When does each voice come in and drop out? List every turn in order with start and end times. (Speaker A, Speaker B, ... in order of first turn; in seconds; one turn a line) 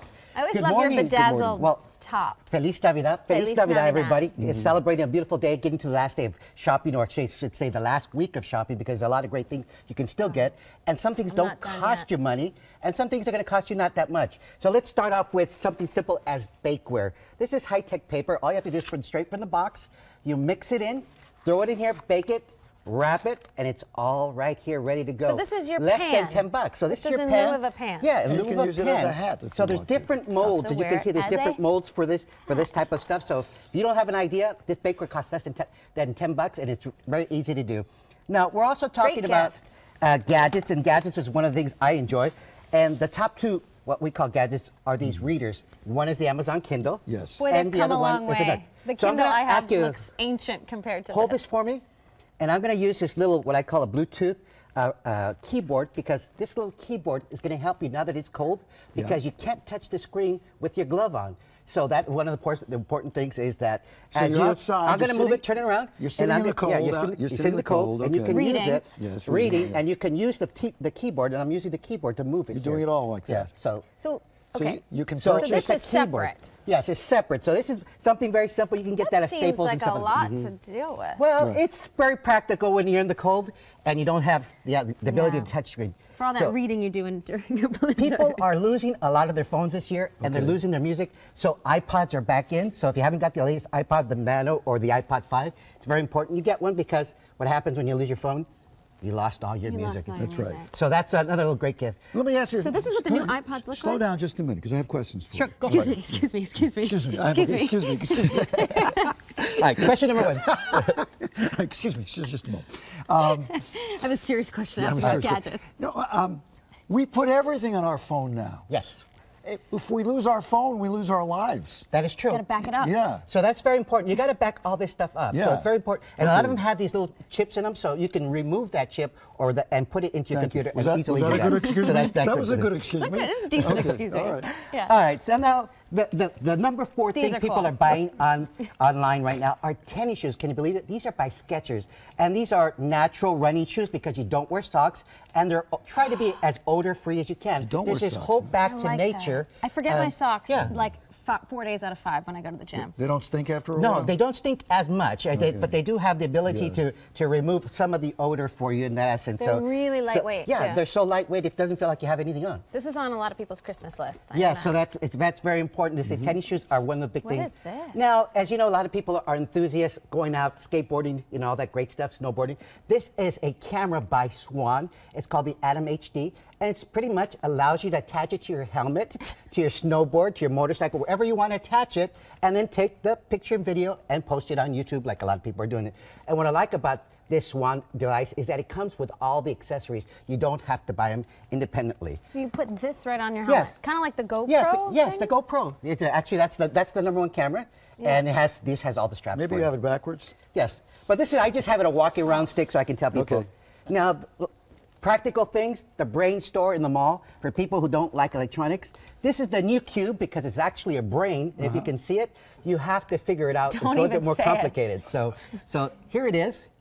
Speaker A: 0.3-2.5
Speaker B: 0.5-1.9
Speaker B: 2.5-50.0
Speaker A: 3.3-4.3
Speaker A: 11.3-12.1
Speaker A: 25.2-28.1
Speaker C: 28.2-30.3
Speaker A: 30.4-31.6
Speaker A: 39.0-39.6
Speaker C: 47.1-47.4
Speaker A: 47.4-51.4
Speaker B: 51.1-51.8
Speaker B: 52.4-73.9
Speaker C: 64.1-65.5
Speaker C: 66.0-68.4
Speaker A: 68.3-68.9
Speaker C: 69.0-69.8
Speaker C: 72.5-73.5
Speaker A: 74.0-74.8
Speaker C: 74.5-75.7
Speaker B: 75.2-80.2
Speaker A: 75.4-76.5
Speaker A: 79.0-81.2
Speaker C: 80.2-80.5
Speaker B: 81.2-86.6
Speaker A: 85.1-85.5
Speaker A: 86.2-88.4
Speaker B: 88.0-98.5
Speaker C: 90.2-90.6
Speaker B: 99.0-102.0
Speaker A: 99.7-100.7
Speaker C: 100.2-100.6
Speaker C: 102.1-106.1
Speaker A: 102.6-104.0
Speaker B: 105.3-106.2
Speaker A: 105.6-109.2
Speaker C: 106.8-109.1
Speaker B: 109.5-111.0
Speaker C: 109.9-113.5
Speaker A: 113.2-115.6
Speaker C: 114.8-118.7
Speaker B: 115.0-115.2
Speaker B: 118.7-119.0
Speaker C: 119.5-121.9
Speaker B: 121.9-122.4
Speaker A: 122.3-122.9
Speaker C: 122.8-123.2
Speaker B: 123.3-132.8
Speaker C: 125.3-126.6
Speaker C: 130.3-134.5
Speaker A: 131.4-131.7
Speaker A: 132.9-134.9
Speaker B: 133.7-134.0
Speaker B: 134.6-150.7
Speaker A: 137.1-138.0
Speaker C: 147.6-148.5
Speaker A: 148.6-152.9
Speaker C: 153.0-154.1
Speaker B: 153.8-162.6
Speaker C: 155.3-155.7
Speaker C: 156.5-156.8
Speaker A: 159.4-160.8
Speaker A: 162.7-164.8
Speaker B: 164.3-192.2
Speaker A: 167.2-168.0
Speaker A: 192.3-195.3
Speaker B: 193.5-193.8
Speaker B: 194.5-199.7
Speaker C: 199.3-200.4
Speaker B: 200.5-216.7
Speaker C: 203.1-203.5
Speaker C: 211.6-211.9
Speaker A: 213.7-214.8